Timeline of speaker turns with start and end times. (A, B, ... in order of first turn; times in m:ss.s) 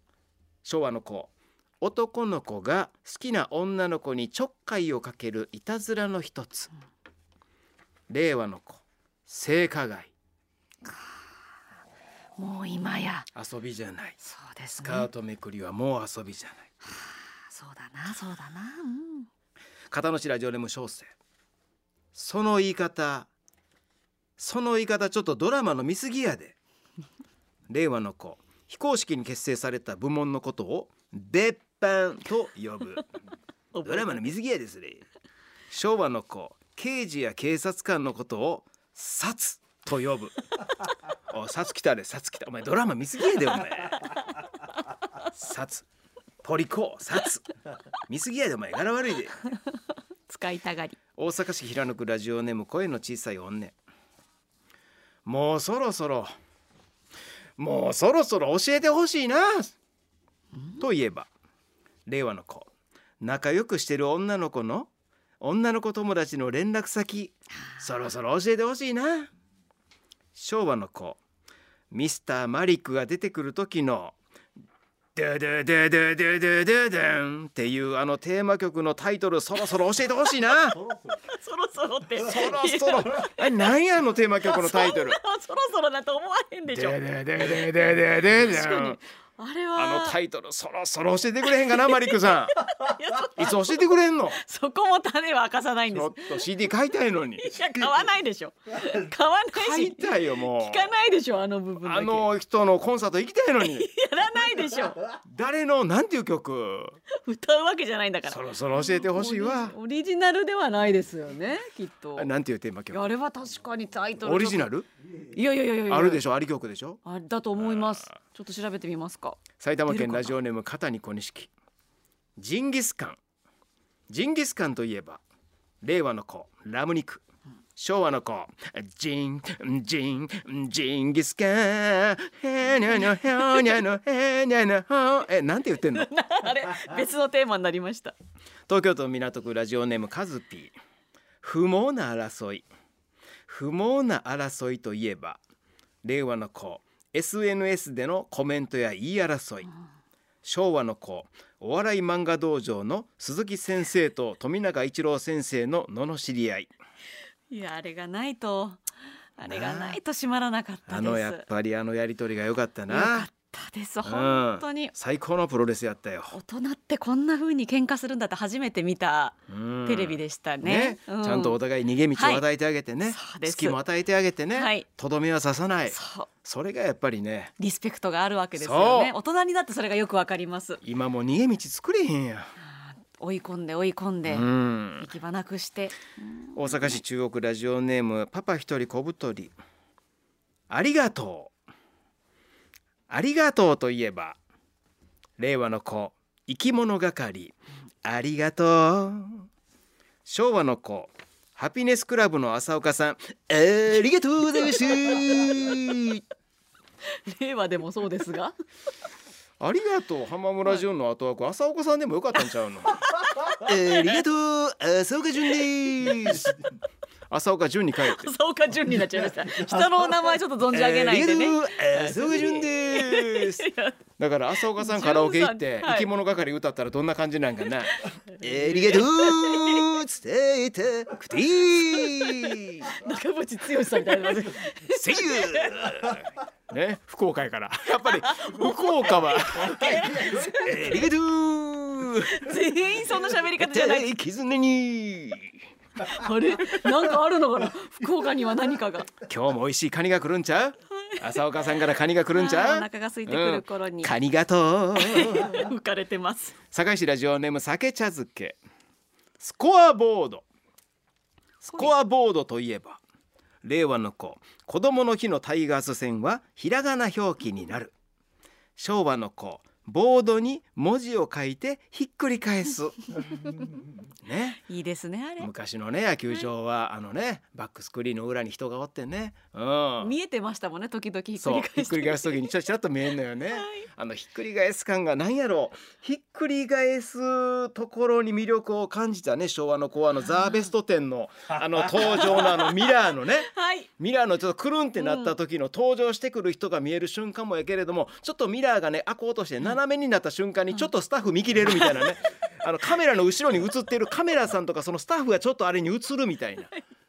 0:00.6-0:06.7 A
0:08.1-0:10.1 A
0:12.4-0:13.3 B
0:13.3-0:14.2 A
0:14.2-0:15.1 B
0:14.8-0:16.7 A
0:16.8-0:19.3 B
0:19.9-0:21.1 A
0:22.1-0:23.3 A
0:24.4-0:26.6 A
0:27.7-0:33.0 A
0:33.7-0:34.3 B
0:33.8-0:35.0 A
0:35.7-0:40.4 A
0:41.3-0:44.2 A
0:45.3-0:45.8 A
0:46.4-0:47.5 A
0:48.1-0:49.4 A
0:50.3-0:51.0 B
0:51.2-0:53.7 A
0:55.2-0:56.3 A
0:57.6-0:59.7 A
1:00.8-1:01.3 A
1:02.0-1:02.7 A
1:03.2-1:04.9 A
1:05.4-1:09.3 A
1:10.3-1:11.2 A
1:11.9-1:14.1 A
1:15.2-1:20.8 A
1:21.1-1:23.7 B
1:22.2-1:25.2 A
1:24.4-1:27.7 B
1:26.7-1:29.0 A
1:28.3-1:30.2 B
1:29.7-1:32.7 A
1:31.5-1:36.5 B
1:33.3-1:34.4 A
1:35.9-1:37.5 A
1:37.4-1:42.3 B
1:39.5-1:40.9 A
1:41.8-1:43.9 A
1:43.6-1:45.0 B
1:45.2-1:47.0 A
1:47.1-1:52.3 B
1:48.3-1:49.8 A
1:52.2-1:53.1 A
1:52.9-1:54.7 B
1:54.2-1:54.9 A
1:55.3-1:56.2 B
1:55.9-1:57.0 A
1:57.0-2:00.4 B
1:57.6-1:58.1 A
1:59.6-2:01.5 A
2:02.4-2:03.2 A
2:04.1-2:05.2 A
2:05.8-2:07.2 A
2:07.8-2:16.1 A
2:15.9-2:18.1 B
2:18.7-2:20.7 A
2:21.4-2:22.6 A
2:23.5-2:25.4 A
2:26.0-2:29.7 A
2:30.4-2:36.7 A
2:37.5-2:38.8 B
2:39.4-2:41.4 B
2:39.4-2:40.0 A
2:40.9-2:43.3 A
2:42.9-2:44.9 B
2:44.0-2:46.4 A
2:46.3-2:51.6 B
2:49.5-2:57.5 A
2:52.1-2:52.4 B
2:53.0-2:53.8 B
2:54.5-2:54.8 B
2:55.9-2:56.3 B
2:57.6-3:00.8 B
2:58.6-2:59.1 A
3:00.8-3:02.5 A
3:02.6-3:07.0 B
3:04.3-3:05.1 A
3:06.5-3:09.5 A
3:10.7-3:11.5 A
3:13.1-3:14.4 A
3:15.4-3:19.5 A
3:20.2-3:26.2 A
3:25.1-3:25.5 B
3:27.1-3:28.5 B
3:29.6-3:36.7 A
3:33.2-3:34.2 B
3:37.3-3:38.3 A
3:38.0-3:44.0 B
3:40.7-3:43.6 A
3:44.2-3:53.0 A
3:44.7-3:46.1 B
3:48.0-3:49.9 B
3:51.8-3:56.0 B
3:54.9-4:02.5 A
3:58.0-4:01.0 B
4:02.2-4:04.1 B
4:03.6-4:05.6 A
4:06.0-4:09.1 B
4:09.2-4:15.7 A
4:12.3-4:14.1 B
4:15.0-4:16.5 B
4:16.7-4:18.6 A
4:19.4-4:20.4 A
4:21.6-4:23.0 A
4:21.7-4:21.9 B
4:23.6-4:27.9 A
4:28.8-4:33.3 A
4:34.2-4:34.6 A
4:34.6-4:35.5 B
4:35.4-4:40.1 A
4:40.0-4:42.4 B
4:41.4-5:06.7 A
4:43.4-4:43.8 B
4:50.4-4:50.6 B
4:52.0-4:53.9 B
4:55.0-4:55.3 B
5:01.7-5:02.2 B